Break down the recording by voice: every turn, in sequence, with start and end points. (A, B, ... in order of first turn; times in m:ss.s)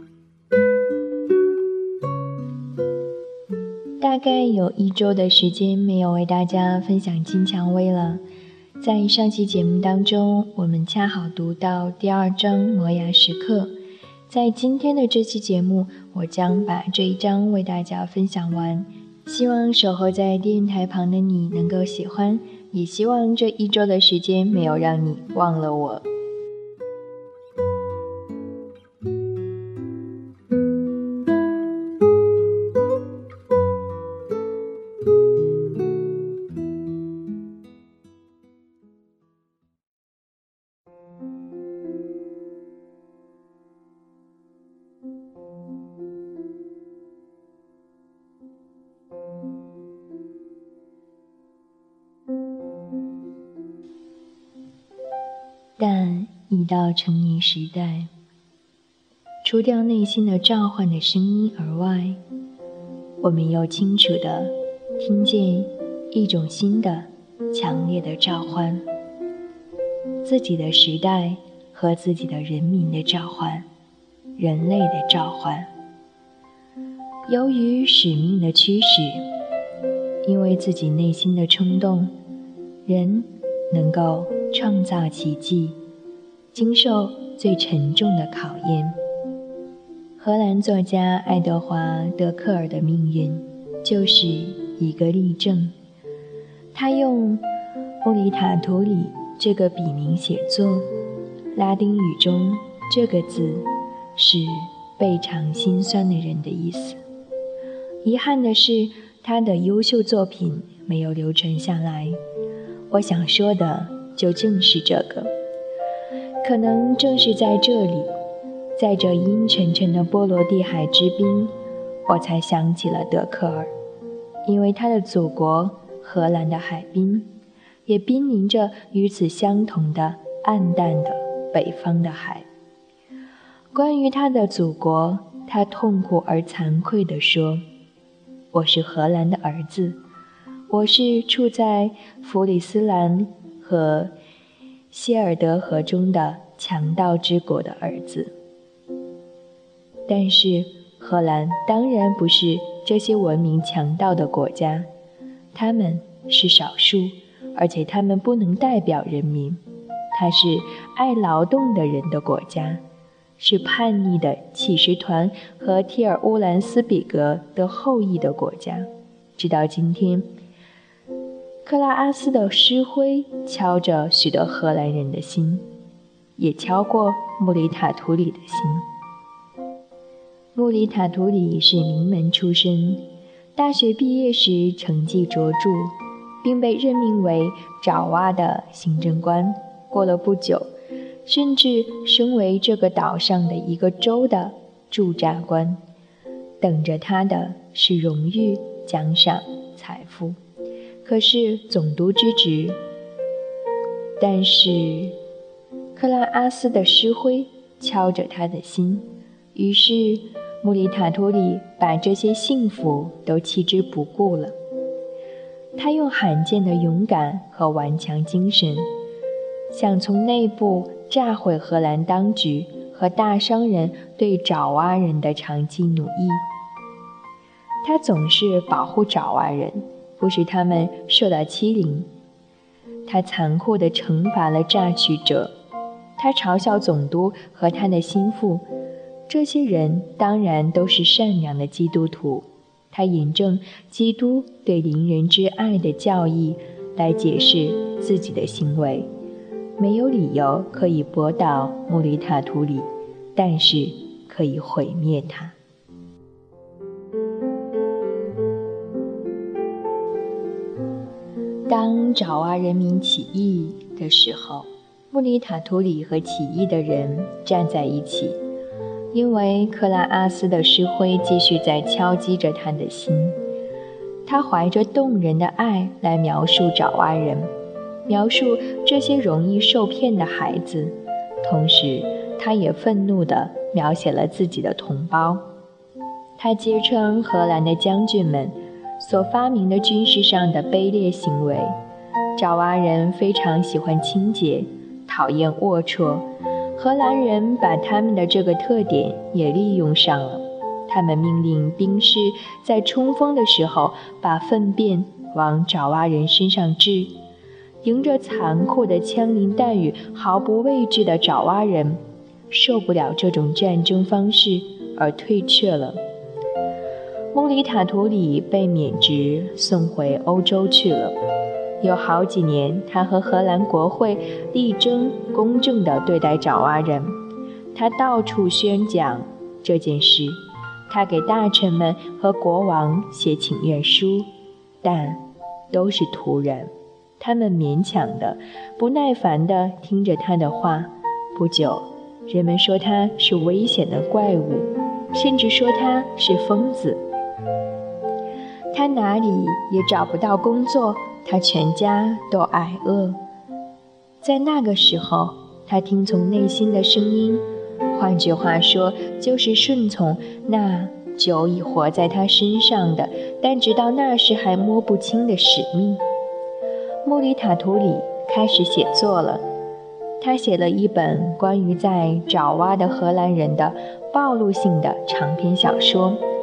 0:04.0-0:08.2 A
0:08.8-0:13.7 A
0:14.3-0:26.0 A
0:55.8-0:58.1 A
0:59.4-1:02.2 A
1:03.2-1:08.8 A
1:10.2-1:13.6 A
1:14.4-1:15.7 A
1:17.3-1:19.2 A
1:20.2-1:22.1 A
1:22.8-1:25.8 A
1:26.5-1:29.0 A
1:30.2-1:35.7 A
1:36.7-1:37.4 A
1:38.0-1:40.9 A
1:41.5-1:47.0 A
1:48.0-1:52.2 A
1:52.9-1:55.3 A
1:56.4-1:58.1 A
1:58.8-2:01.5 A
2:02.0-2:03.7 A
2:04.4-2:07.3 A
2:07.8-2:12.5 A
2:13.7-2:17.6 A
2:18.5-2:20.0 A
2:20.7-2:24.1 A
2:24.9-2:28.3 A
2:30.1-2:34.9 A
2:35.5-2:39.6 A
2:40.1-2:42.8 A
2:43.4-2:50.3 A
2:51.6-2:55.7 A
2:56.4-2:58.9 A
3:00.5-3:03.0 A
3:03.6-3:10.7 A
3:11.2-3:15.8 A
3:16.6-3:20.4 A
3:21.0-3:22.8 A
3:24.2-3:25.2 A
3:25.9-3:34.5 A
3:35.8-3:38.9 A
3:39.7-3:46.4 A
3:47.8-3:52.1 A
3:53.1-3:55.5 A
3:56.2-3:58.6 A
3:59.3-4:09.1 A
4:09.8-4:15.6 A
4:21.7-4:28.4 A
4:29.1-4:33.4 A
4:34.2-4:37.5 A
4:38.1-4:45.4 A
4:46.4-4:51.8 A
4:52.4-5:07.1 A
5:07.8-5:16.0 A
5:17.3-5:21.2 A
5:21.8-5:27.2 A
5:27.7-5:34.3 A
5:34.8-5:47.0 A
5:48.7-5:53.2 A
5:54.2-6:06.0 A
6:07.0-6:09.4 A
6:10.2-6:16.2 A